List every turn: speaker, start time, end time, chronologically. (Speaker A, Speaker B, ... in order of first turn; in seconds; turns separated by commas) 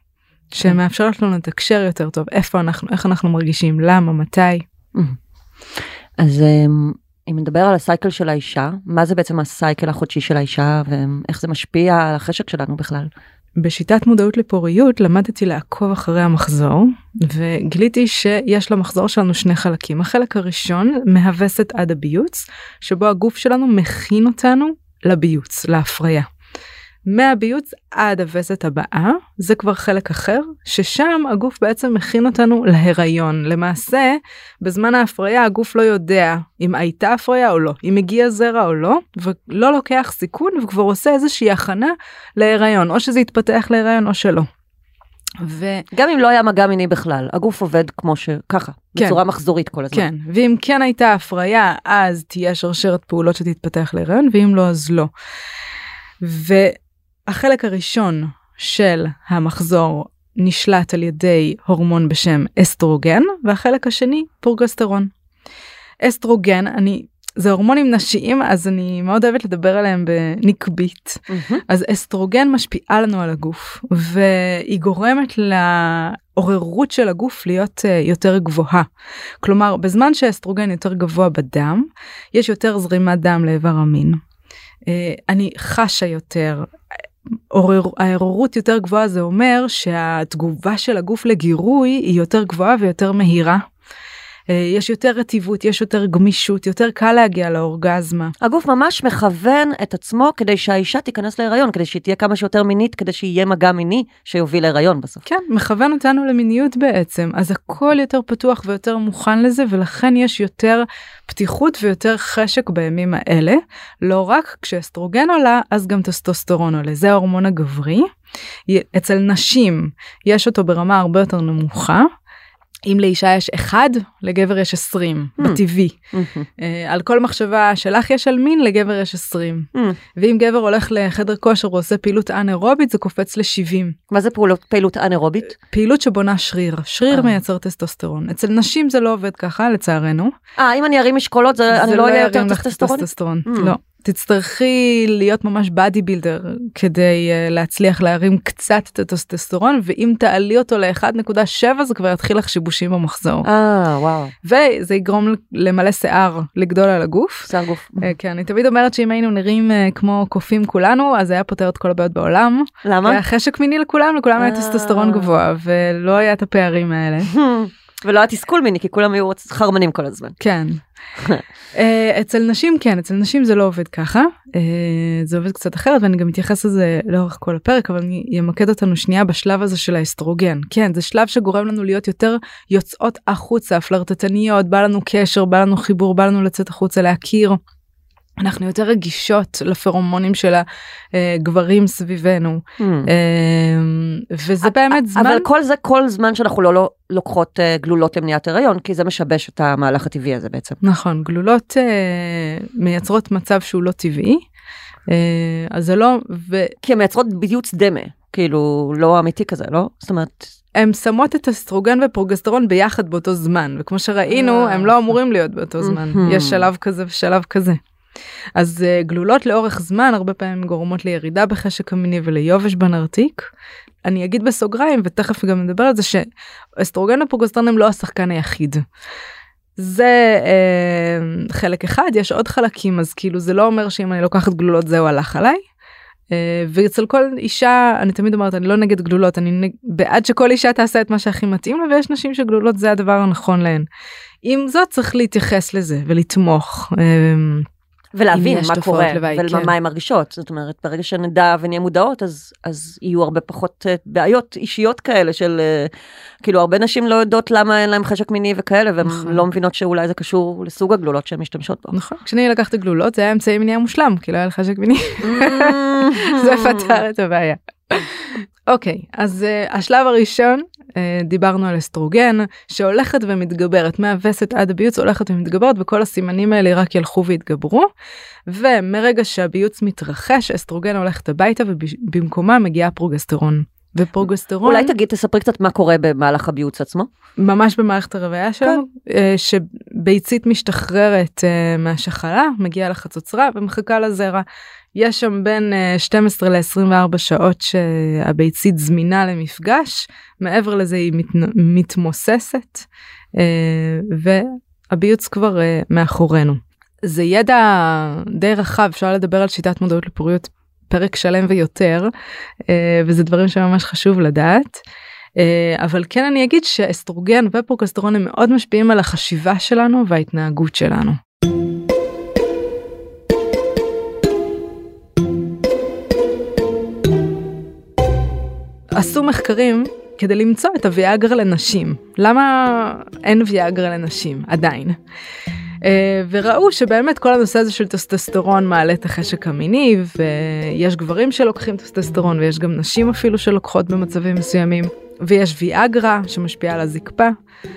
Speaker A: 0.5-4.6, Speaker B: 6.2-13.1, Speaker A: 13.6-26.3, Speaker A: 27.1-44.5, Speaker A: 45.4-45.9, Speaker B: 45.9-50.1, Speaker A: 49.9-55.1, Speaker A: 56.2-65.1, Speaker A: 66.0-78.9, Speaker B: 71.3-71.6, Speaker A: 79.4-84.2, Speaker A: 84.9-86.7, Speaker A: 87.5-93.6, Speaker A: 94.5-98.3, Speaker B: 98.4-105.2, Speaker A: 105.3-118.1, Speaker A: 118.7-122.1, Speaker A: 122.9-126.0, Speaker B: 126.1-126.5, Speaker A: 126.6-134.0, Speaker B: 134.1-135.6, Speaker A: 135.7-140.3, Speaker B: 137.1-137.4, Speaker B: 140.6-143.7, Speaker A: 141.7-153.5, Speaker B: 153.4-154.3, Speaker A: 154.4-167.3, Speaker B: 157.5-158.1, Speaker B: 162.8-163.2, Speaker B: 164.4-165.4, Speaker B: 167.3-170.4, Speaker A: 170.4-170.8, Speaker A: 171.7-187.6, Speaker A: 188.4-195.5, Speaker B: 192.8-193.1, Speaker B: 194.6-200.8, Speaker A: 200.8-204.4, Speaker A: 205.1-206.8, Speaker B: 206.8-210.5, Speaker A: 210.8-217.8, Speaker B: 214.3-215.0, Speaker B: 215.8-216.7, Speaker A: 218.6-223.5, Speaker A: 224.1-226.2, Speaker A: 226.8-228.8, Speaker A: 229.8-235.6, Speaker A: 236.3-243.9, Speaker A: 244.4-247.7, Speaker B: 248.1-261.9, Speaker A: 248.3-249.7, Speaker A: 259.1-259.4, Speaker A: 261.9-277.9, Speaker B: 265.2-267.0, Speaker A: 278.5-284.9, Speaker B: 284.6-287.1, Speaker A: 287.4-312.1, Speaker A: 312.7-314.8, Speaker A: 315.4-321.2, Speaker A: 328.9-335.0, Speaker A: 335.8-347.4